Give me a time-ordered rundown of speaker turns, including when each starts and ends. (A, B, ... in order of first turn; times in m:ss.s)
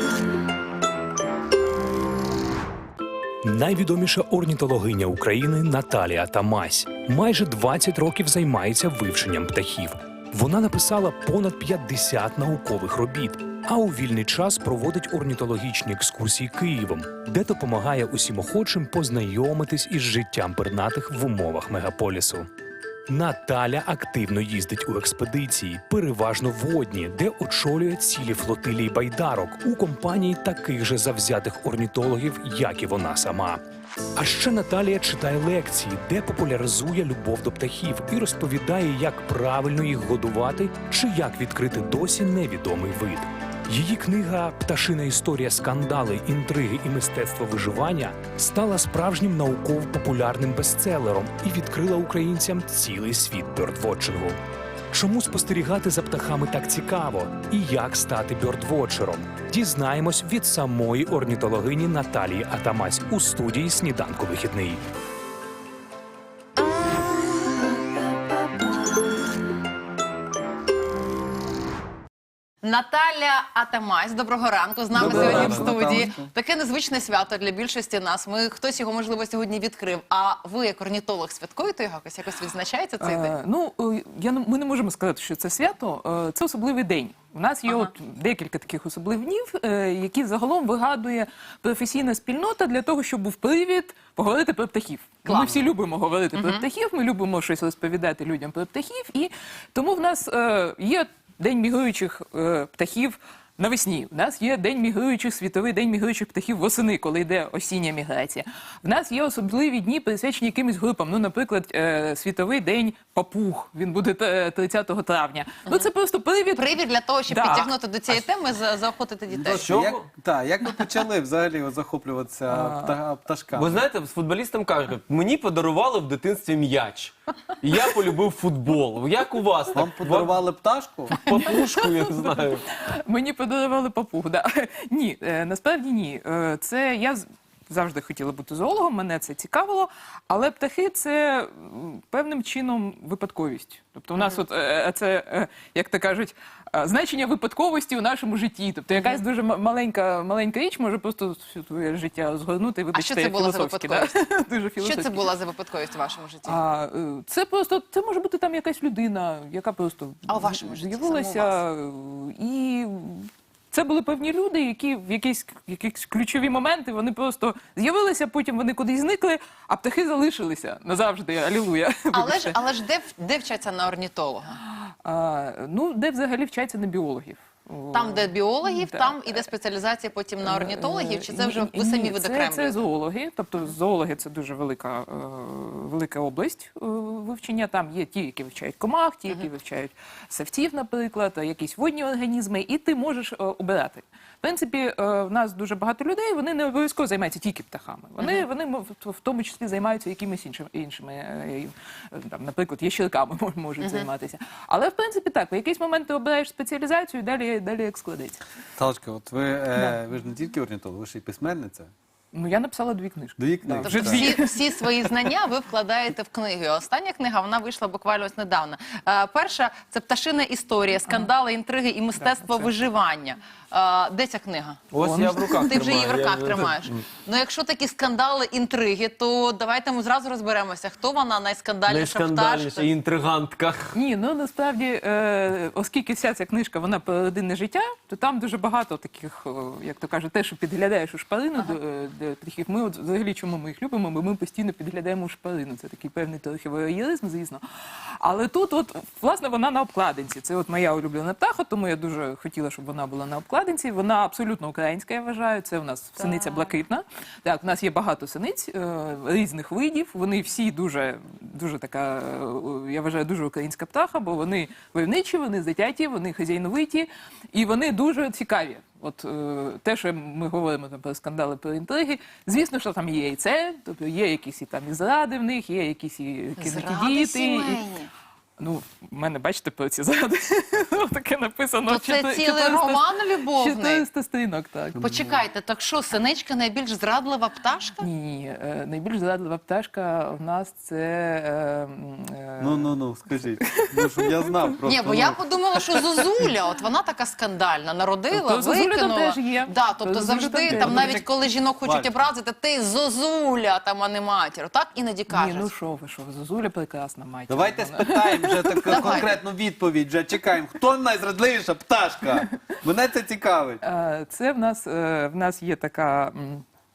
0:03.4-0:22.4 A
0:23.1-0:33.6 A
0:34.2-0:54.3 A
0:54.9-1:04.8 A
1:12.6-1:23.3 B
1:14.9-1:16.3 C
1:14.9-1:16.1 D
1:23.0-1:57.7 D
1:35.2-1:35.7 B
1:36.3-1:36.6 B
1:56.5-1:59.7 B
1:59.3-2:03.8 C
1:59.5-2:00.0 E
2:02.5-2:03.0 D
2:03.5-2:10.4 E
2:09.7-2:11.2 C
2:11.1-2:12.6 E
2:11.2-2:11.5 D
2:12.2-2:35.3 D
2:32.9-2:34.2 B
2:34.8-2:36.6 B
2:36.4-2:52.5 D
2:40.3-2:41.6 B
2:52.1-2:54.6 B
2:54.8-2:59.4 D
2:57.9-3:02.8 B
3:00.4-3:28.4 D
3:23.8-3:24.1 B
3:28.8-3:31.9 C
3:32.3-3:34.8 D
3:33.4-3:34.3 C
3:33.8-3:44.8 B
3:42.2-3:42.8 D
3:44.9-3:47.0 E
3:45.0-3:45.7 D
3:45.5-3:52.9 B
3:51.9-3:53.9 E
3:53.9-4:07.6 D
4:08.2-4:37.8 D
4:16.2-4:16.7 B
4:36.6-4:38.1 B
4:38.6-4:45.0 D
4:41.9-4:44.0 B
4:45.0-4:45.4 C
4:45.0-4:48.1 B
4:48.0-4:54.5 D
4:52.6-4:55.4 C
4:54.9-5:05.7 B
4:58.3-5:01.2 D
5:00.7-5:02.2 C
5:05.3-5:09.2 D
5:07.5-5:13.8 C
5:08.9-5:09.3 B
5:13.8-5:16.6 D